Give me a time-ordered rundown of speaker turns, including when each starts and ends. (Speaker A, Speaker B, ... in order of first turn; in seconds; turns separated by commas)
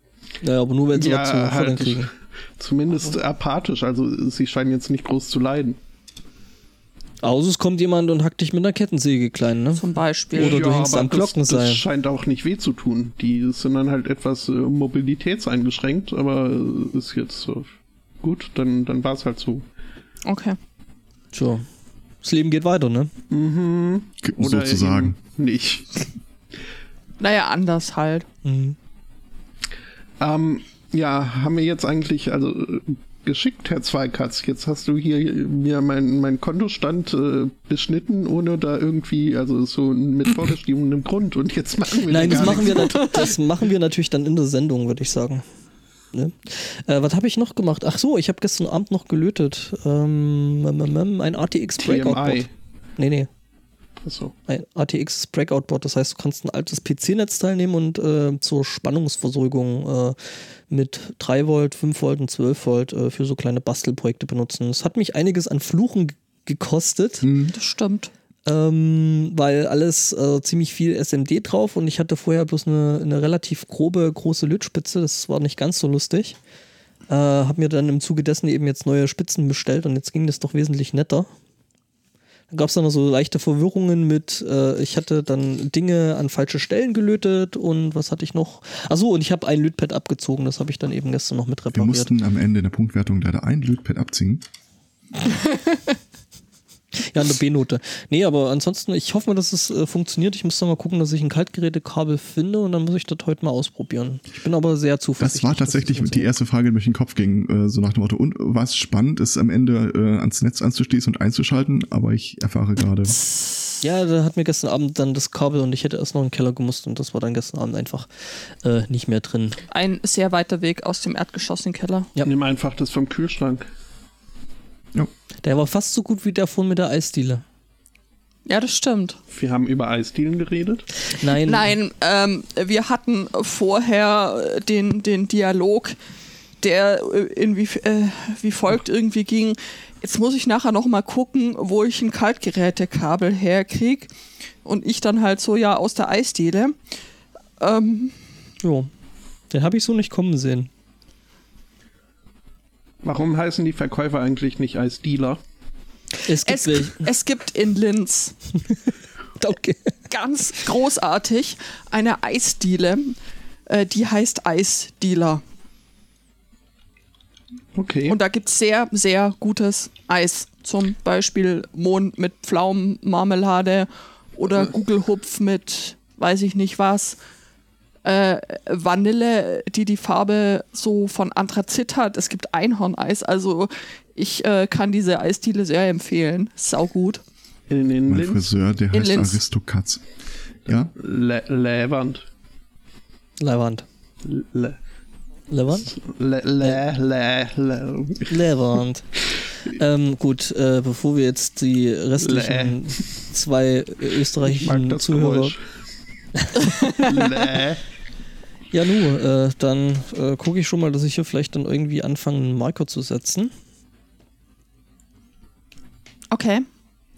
Speaker A: 0.4-2.1, Speaker B: 0.9-5.8, Speaker A: 7.2-9.8, Speaker C: 9.8-10.7, Speaker A: 10.3-11.8, Speaker B: 10.3-17.7, Speaker B: 18.2-19.6, Speaker C: 20.2-20.6, Speaker A: 21.3-21.7, Speaker A: 22.2-23.1, Speaker B: 23.3-26.0, Speaker D: 24.2-25.2, Speaker C: 27.2-28.3, Speaker A: 28.4-28.8, Speaker B: 30.2-43.3, Speaker A: 42.1-45.4, Speaker C: 42.2-43.3, Speaker A: 46.1-52.5, Speaker B: 51.8-52.5, Speaker A: 53.0-53.3, Speaker B: 54.0-54.3, Speaker A: 54.5-60.2, Speaker A: 60.7-67.3, Speaker D: 67.2-67.5, Speaker C: 67.5-68.1, Speaker A: 68.5-76.4, Speaker A: 77.1-81.3, Speaker A: 82.5-92.1, Speaker D: 91.7-94.4, Speaker A: 97.0-106.3, Speaker D: 105.2-113.2, Speaker C: 113.2-113.8, Speaker A: 113.8-119.6, Speaker C: 119.7-122.1, Speaker B: 122.2-123.7, Speaker A: 125.4-127.4, Speaker C: 128.5-129.2, Speaker B: 129.3-130.9, Speaker A: 131.1-131.7, Speaker C: 131.3-135.9, Speaker C: 136.6-144.1, Speaker C: 144.6-146.8, Speaker C: 147.6-148.2, Speaker A: 148.6-148.9, Speaker A: 149.5-150.7, Speaker B: 153.0-155.4, Speaker A: 156.3-157.1, Speaker C: 156.4-158.4, Speaker A: 159.4-159.9, Speaker C: 160.1-163.2, Speaker C: 163.7-165.4, Speaker B: 167.8-168.2, Speaker C: 168.1-177.2, Speaker C: 178.0-187.2, Speaker B: 187.7-188.5, Speaker D: 188.1-190.0, Speaker C: 188.9-189.4, Speaker D: 190.7-190.9, Speaker B: 190.9-192.2, Speaker A: 193.4-193.8, Speaker B: 194.2-194.8, Speaker A: 195.5-195.9, Speaker B: 195.9-198.3, Speaker A: 198.3-199.1, Speaker A: 199.6-205.6, Speaker B: 202.2-203.0, Speaker B: 204.4-205.6, Speaker A: 206.4-206.8, Speaker C: 206.6-207.3, Speaker B: 206.9-207.8, Speaker A: 208.7-213.5, Speaker C: 216.3-216.7